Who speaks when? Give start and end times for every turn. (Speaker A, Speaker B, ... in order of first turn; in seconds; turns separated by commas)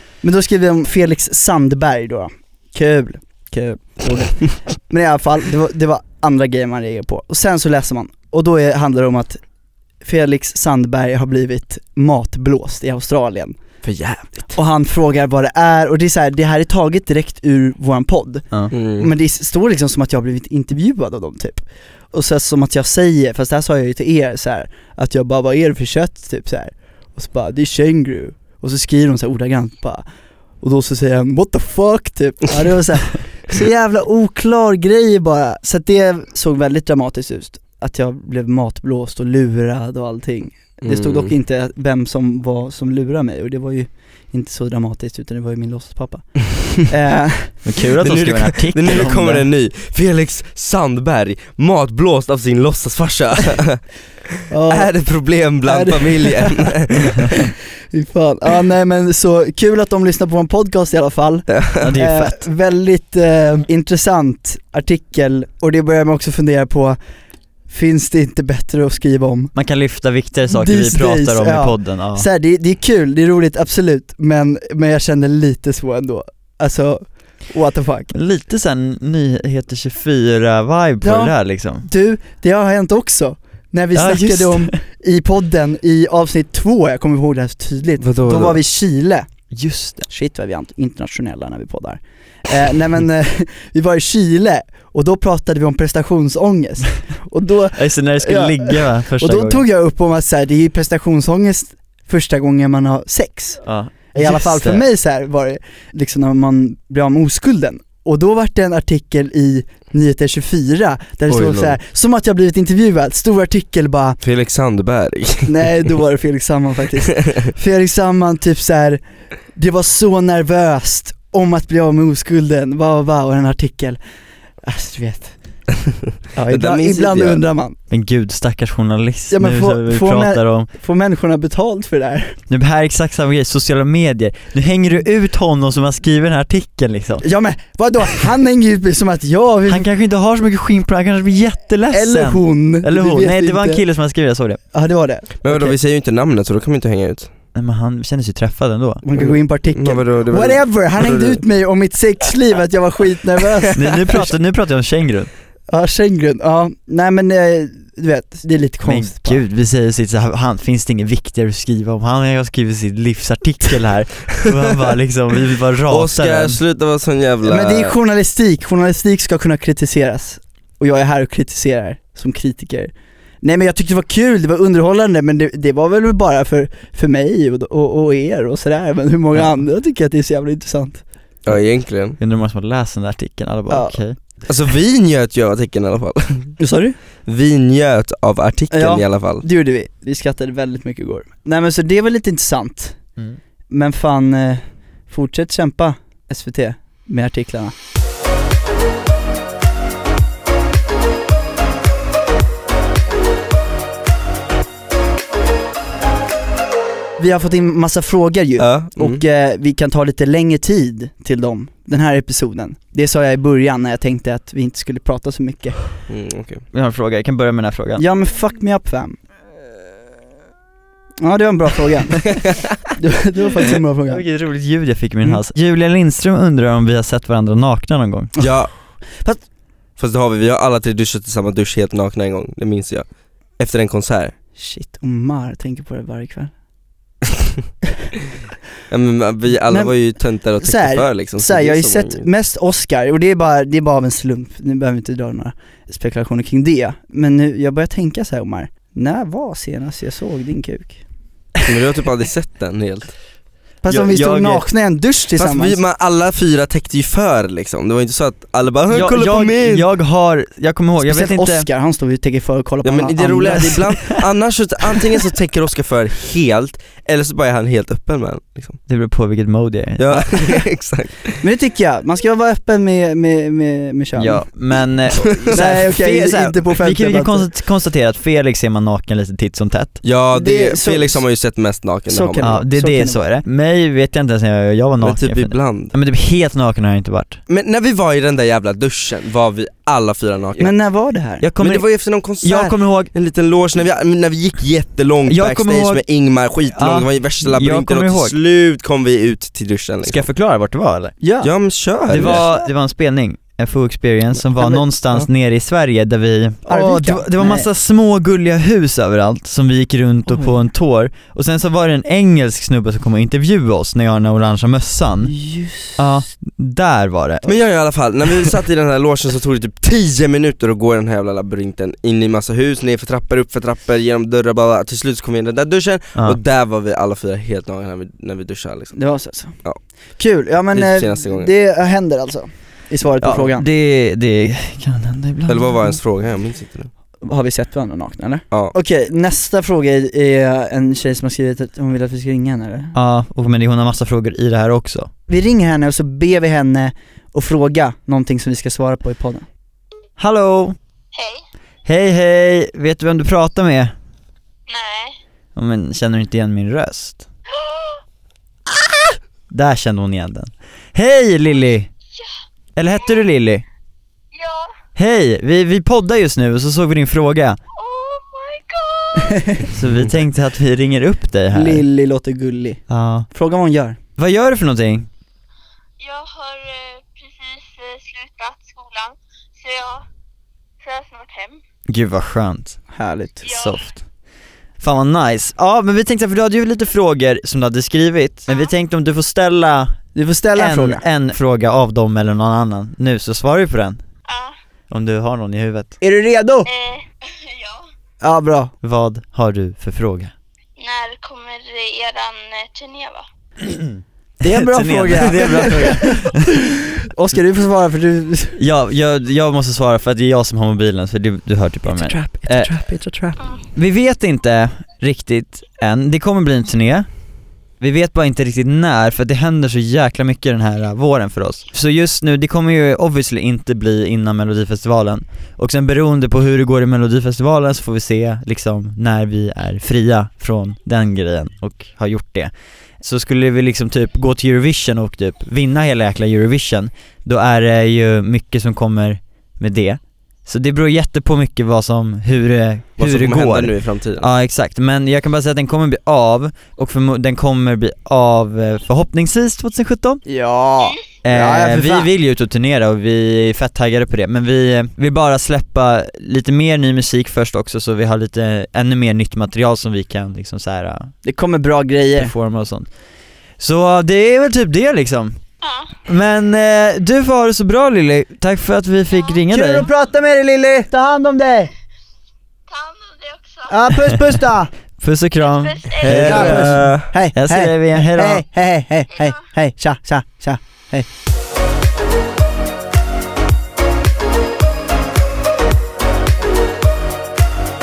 Speaker A: 0.2-9.4, Speaker A: 10.0-13.6, Speaker B: 13.8-14.4, Speaker A: 14.5-30.1, Speaker B: 18.7-19.1, Speaker A: 30.6-47.6, Speaker B: 40.8-41.3, Speaker C: 47.6-49.5, Speaker B: 48.0-54.0, Speaker A: 54.5-56.7, Speaker B: 54.7-57.3, Speaker A: 57.9-67.0, Speaker B: 61.5-61.9, Speaker C: 61.8-62.5, Speaker A: 67.7-69.5, Speaker C: 69.5-72.3, Speaker A: 70.5-78.1, Speaker C: 78.1-81.9, Speaker A: 81.0-89.3, Speaker C: 83.9-84.8, Speaker B: 88.0-88.6, Speaker C: 89.5-90.1, Speaker A: 90.1-114.2, Speaker C: 97.7-99.7, Speaker C: 103.6-104.8, Speaker B: 111.3-111.8, Speaker B: 114.2-115.9, Speaker A: 115.5-119.0, Speaker A: 119.5-124.0, Speaker A: 124.6-125.4, Speaker A: 126.3-127.8, Speaker B: 126.5-127.4, Speaker C: 127.9-130.7, Speaker A: 129.3-132.4, Speaker C: 132.5-137.2, Speaker A: 137.2-139.9, Speaker C: 139.7-144.6, Speaker A: 141.9-143.8, Speaker A: 144.7-145.3, Speaker B: 145.4-147.3, Speaker C: 145.5-145.7, Speaker C: 147.6-149.0, Speaker A: 149.0-154.3, Speaker B: 149.2-151.4, Speaker C: 153.7-155.3, Speaker A: 155.7-159.4, Speaker C: 158.8-166.6, Speaker B: 165.9-167.9, Speaker A: 167.4-181.0, Speaker B: 181.4-182.2, Speaker C: 182.2-184.2, Speaker A: 183.7-184.0, Speaker B: 184.4-186.6, Speaker A: 186.6-187.0, Speaker B: 187.3-189.4, Speaker A: 188.7-193.0, Speaker A: 193.7-197.7, Speaker A: 207.2-215.9, Speaker B: 208.6-209.2, Speaker B: 216.1-216.6, Speaker C: 216.7-218.0, Speaker A: 218.0-219.2, Speaker A: 221.2-222.4, Speaker A: 223.0-224.2, Speaker C: 224.1-228.3, Speaker B: 228.4-228.7, Speaker B: 230.0-234.3, Speaker A: 234.6-236.5, Speaker B: 238.9-242.3, Speaker A: 239.7-240.1, Speaker A: 240.6-251.0, Speaker B: 251.6-253.2, Speaker A: 253.8-255.8, Speaker C: 253.9-254.7, Speaker B: 255.4-259.9, Speaker C: 258.9-261.7, Speaker A: 261.0-264.1, Speaker B: 262.8-268.8, Speaker C: 263.6-264.0, Speaker C: 268.9-270.6, Speaker B: 270.0-271.4, Speaker A: 271.4-274.5, Speaker C: 274.2-280.0, Speaker A: 275.5-277.5, Speaker B: 280.0-282.6, Speaker A: 280.3-281.2, Speaker A: 282.1-283.2, Speaker C: 282.4-287.4, Speaker B: 285.0-285.9, Speaker B: 287.5-290.7, Speaker A: 290.6-291.4, Speaker C: 291.4-293.1, Speaker B: 291.6-300.3, Speaker C: 295.3-296.0, Speaker C: 296.7-298.4, Speaker C: 300.0-301.2, Speaker A: 301.2-301.5, Speaker B: 301.4-302.4, Speaker C: 302.1-315.4, Speaker A: 304.6-305.3, Speaker A: 306.7-307.7, Speaker A: 315.3-316.0, Speaker C: 316.0-317.5, Speaker B: 317.4-329.8, Speaker A: 328.9-333.7, Speaker B: 330.7-331.5, Speaker C: 333.2-336.0, Speaker B: 335.5-336.9, Speaker A: 337.2-342.9, Speaker C: 342.9-345.1, Speaker A: 345.3-349.5, Speaker C: 350.2-350.8, Speaker D: 351.1-351.4, Speaker C: 351.9-353.9, Speaker D: 354.7-355.2, Speaker C: 355.6-357.2, Speaker D: 357.5-358.0, Speaker C: 359.5-361.9, Speaker C: 362.8-363.6, Speaker D: 364.3-364.8, Speaker C: 365.0-367.6, Speaker D: 367.8-369.7, Speaker C: 369.7-371.9, Speaker A: 371.5-374.0, Speaker C: 372.9-373.3, Speaker C: 374.2-375.1, Speaker D: 376.0-380.1, Speaker D: 380.8-381.6, Speaker C: 381.9-382.8, Speaker A: 382.9-383.5, Speaker D: 383.4-383.9, Speaker C: 383.4-384.0, Speaker C: 384.8-390.0, Speaker D: 388.5-388.7, Speaker A: 390.1-391.0, Speaker C: 390.6-394.0, Speaker D: 394.3-394.6, Speaker C: 394.9-396.0, Speaker A: 396.0-396.7, Speaker D: 396.6-397.9, Speaker A: 398.2-398.7, Speaker C: 398.8-400.3, Speaker D: 400.8-403.2, Speaker C: 403.7-406.5, Speaker A: 404.4-408.6, Speaker C: 408.6-412.7, Speaker A: 411.9-413.4, Speaker C: 413.7-417.1, Speaker C: 417.8-450.2, Speaker B: 443.0-444.3, Speaker A: 450.3-452.1, Speaker C: 451.2-461.1, Speaker A: 461.2-462.3, Speaker C: 462.1-462.9, Speaker C: 463.6-465.4, Speaker D: 465.6-465.9, Speaker C: 466.1-469.9, Speaker D: 469.1-469.4, Speaker A: 469.5-471.7, Speaker D: 472.7-473.8, Speaker A: 473.7-474.7, Speaker C: 475.0-478.4, Speaker D: 475.4-476.3, Speaker B: 476.0-477.1, Speaker A: 476.2-481.1, Speaker D: 479.1-479.4